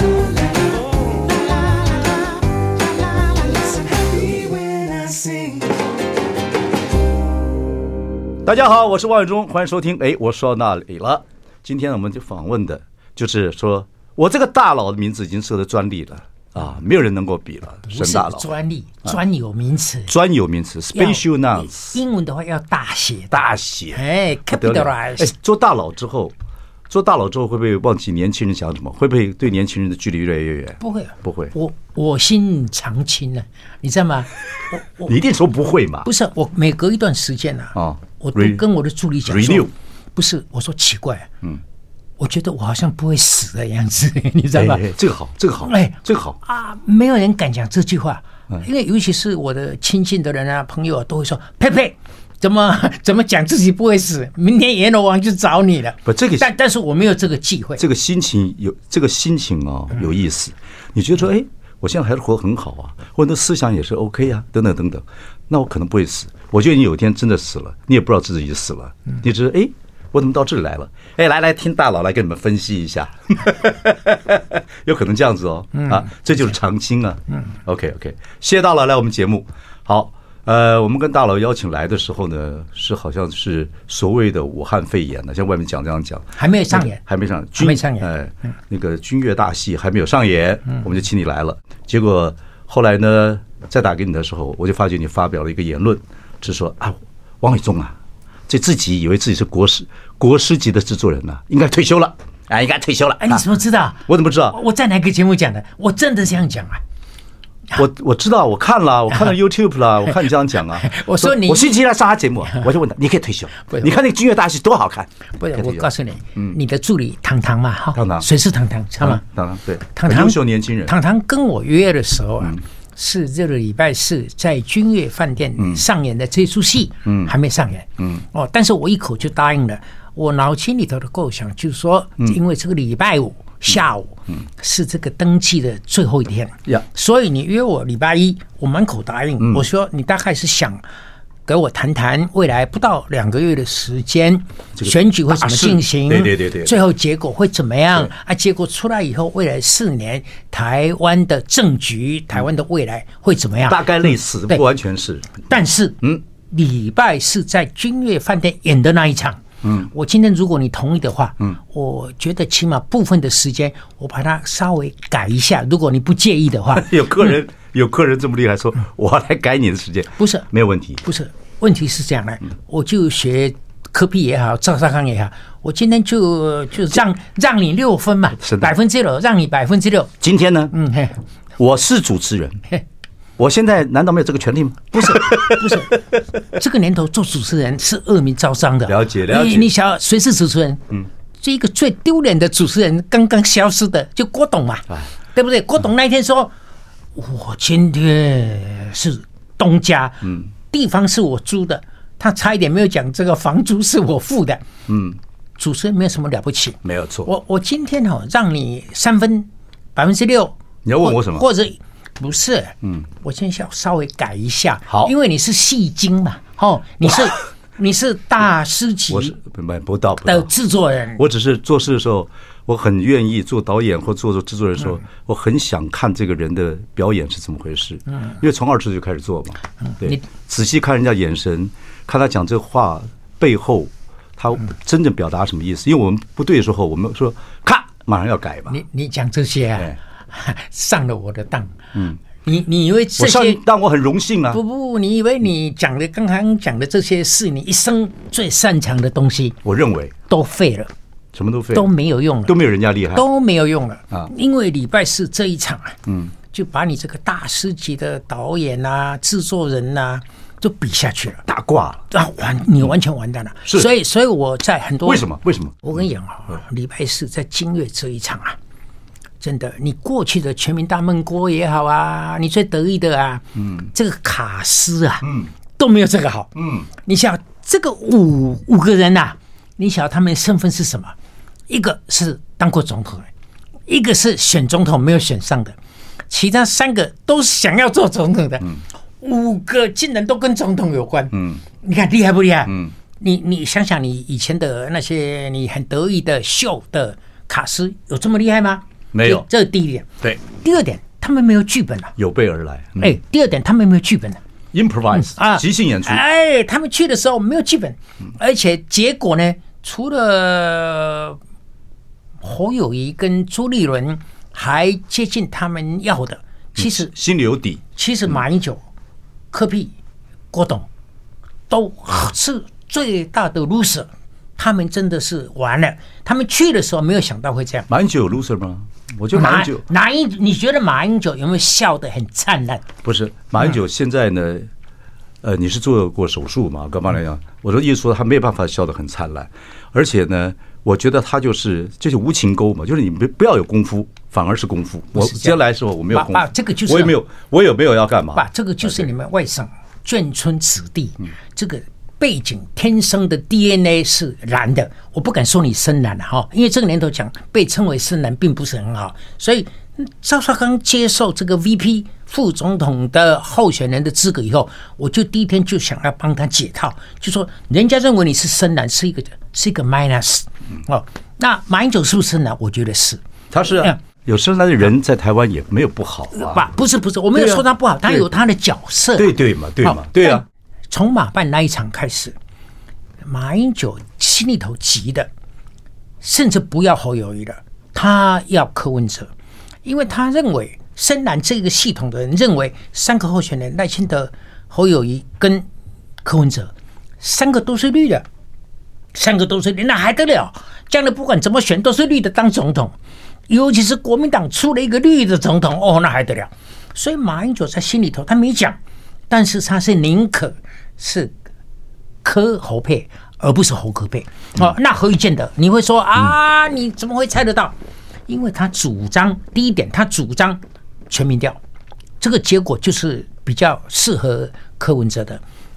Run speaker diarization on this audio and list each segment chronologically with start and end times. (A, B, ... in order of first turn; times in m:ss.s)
0:08.4-0:18.4 A
0:17.9-0:20.1 B
0:20.1-0:22.0 A
0:20.9-0:25.3 B
0:23.3-0:26.3 A
0:26.9-0:31.5 A
0:30.8-0:35.1 B
0:35.0-0:36.1 A
0:36.0-0:41.3 B
0:37.7-0:38.6 A
0:39.2-0:39.7 A
0:42.2-0:44.8 B
0:44.5-0:46.4 A
0:45.6-0:57.8 B
0:56.0-0:56.5 A
0:57.8-1:37.9 A
1:26.4-1:27.0 B
1:27.6-1:28.1 B
1:38.5-1:43.4 A
1:43.2-1:46.8 B
1:44.1-1:44.6 A
1:47.7-1:56.6 A
1:50.8-1:51.8 B
1:53.6-1:53.9 B
1:55.4-1:59.2 B
1:57.9-1:58.3 A
1:59.0-2:00.9 A
1:59.9-2:20.8 B
2:19.4-2:19.6 A
2:21.5-2:34.6 B
2:24.8-2:26.8 A
2:33.7-2:35.4 A
2:35.5-2:47.3 B
2:46.7-2:51.0 A
2:50.2-2:50.4 B
2:51.0-3:00.1 B
2:58.4-2:58.7 A
3:00.2-3:00.7 A
3:00.7-3:01.2 B
3:01.6-3:02.6 A
3:03.4-3:05.8 A
3:05.0-3:06.0 B
3:06.5-3:10.8 B
3:08.8-3:09.7 A
3:11.4-3:16.5 B
3:17.1-3:24.6 B
3:24.9-3:25.2 A
3:25.6-3:39.3 B
3:26.8-3:27.3 A
3:30.8-3:31.4 A
3:39.1-3:40.5 A
3:40.2-3:41.2 B
3:41.2-3:58.8 A
3:49.9-3:50.2 B
3:58.7-4:01.8 B
4:02.4-4:03.6 B
4:03.2-4:04.6 A
4:04.5-4:09.6 B
4:09.6-4:10.1 A
4:10.3-4:10.9 B
4:11.3-4:11.9 A
4:11.7-4:12.6 B
4:12.4-4:13.2 A
4:13.1-4:16.0 B
4:16.1-4:16.3 A
4:16.5-4:21.4 B
4:21.4-4:22.0 A
4:22.1-4:25.3 B
4:25.0-4:25.8 A
4:25.8-4:28.6 B
4:29.4-4:41.1 B
4:36.6-4:36.9 A
4:41.7-4:43.3 B
4:43.9-4:45.8 B
4:46.3-5:02.1 B
4:51.3-4:51.6 A
4:52.7-4:52.9 A
4:59.1-4:59.4 A
5:02.2-5:03.1 A
5:03.0-5:04.4 B
5:04.7-5:06.2 A
5:05.1-5:11.4 B
5:12.4-5:17.1 B
5:16.8-5:17.8 A
5:17.9-5:18.8 B
5:19.5-5:19.9 B
5:20.5-5:20.9 B
5:21.7-5:27.9 B
5:27.9-5:29.8 A
5:29.3-5:32.8 B
5:33.0-5:34.7 A
5:35.4-5:49.1 A
5:45.2-5:45.6 B
5:46.1-5:47.2 B
5:48.3-6:13.2 B
6:13.5-6:16.7 A
6:13.7-6:14.0 B
6:16.3-6:22.3 B
6:17.3-6:18.3 A
6:19.2-6:20.4 A
6:23.2-6:25.3 B
6:26.2-6:29.3 B
6:29.8-6:35.6 B
6:36.2-6:38.2 B
6:39.1-6:42.9 B
6:43.5-6:48.8 B
6:49.3-6:51.3 B
6:52.2-6:57.7 B
6:58.3-7:01.6 B
7:02.2-7:05.4 B